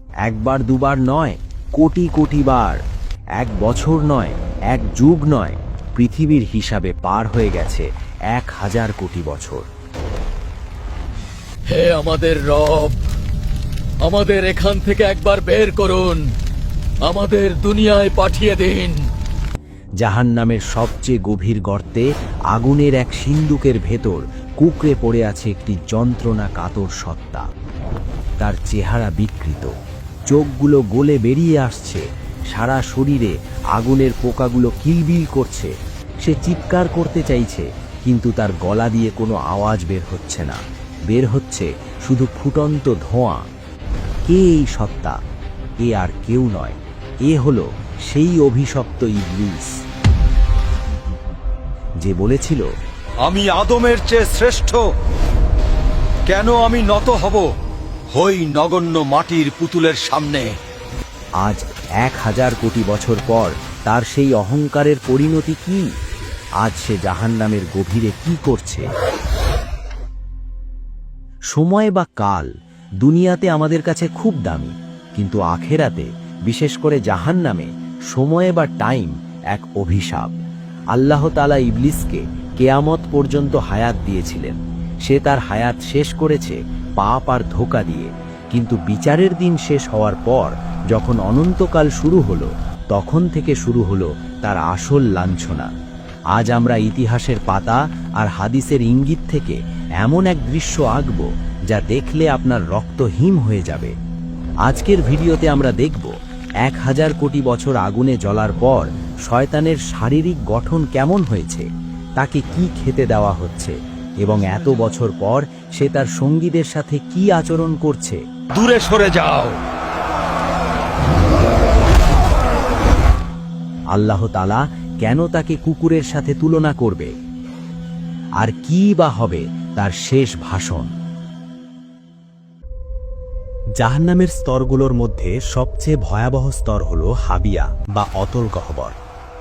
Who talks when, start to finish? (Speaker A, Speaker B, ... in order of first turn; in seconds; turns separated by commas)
Speaker A: 0.2-2.8, Speaker A: 3.4-9.7, Speaker B: 11.7-13.0, Speaker B: 14.0-16.2, Speaker B: 17.1-19.0, Speaker A: 20.0-27.5, Speaker A: 28.4-29.7, Speaker A: 30.3-43.5, Speaker A: 44.3-45.2, Speaker A: 45.8-49.8, Speaker A: 52.0-52.7, Speaker C: 53.2-54.9, Speaker C: 56.3-57.5, Speaker C: 58.1-60.6, Speaker A: 61.4-65.9, Speaker A: 66.6-68.9, Speaker A: 71.5-80.3, Speaker A: 80.9-95.7, Speaker A: 96.3-104.0, Speaker A: 104.7-111.7, Speaker A: 112.2-118.2, Speaker C: 118.5-119.6, Speaker A: 123.9-127.1, Speaker A: 128.4-130.9, Speaker A: 133.8-139.0